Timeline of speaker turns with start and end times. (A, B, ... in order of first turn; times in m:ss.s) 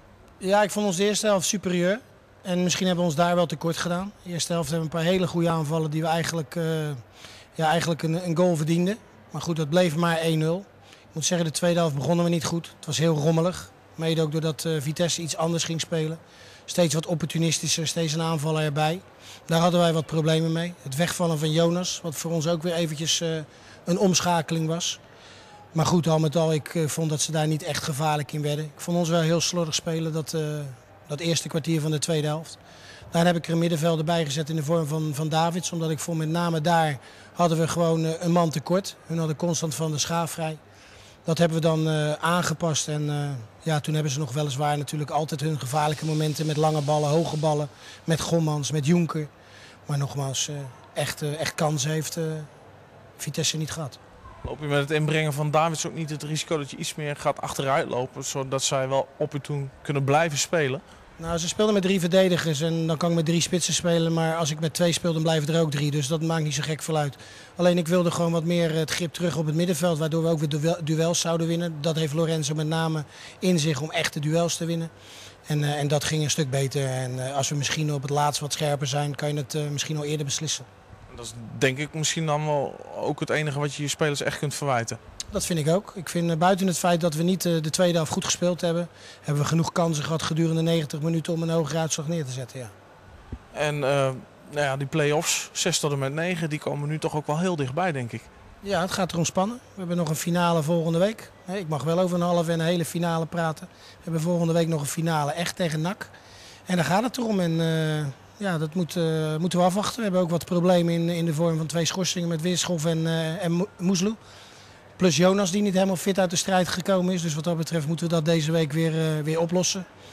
0:00.4-0:07.0 A
0:07.6-0:25.0 A
0:25.7-0:32.6 A
0:33.1-0:40.6 A
0:41.2-0:49.3 A
0:49.9-0:52.5 A
0:53.2-0:54.0 A
0:54.4-1:00.8 B
1:01.2-1:14.9 A
1:15.5-1:20.7 A
1:21.1-1:25.0 B
1:25.3-1:32.7 A
1:33.5-1:38.3 B
1:38.6-1:46.1 A
1:46.7-1:54.2 A
1:55.0-1:59.8 A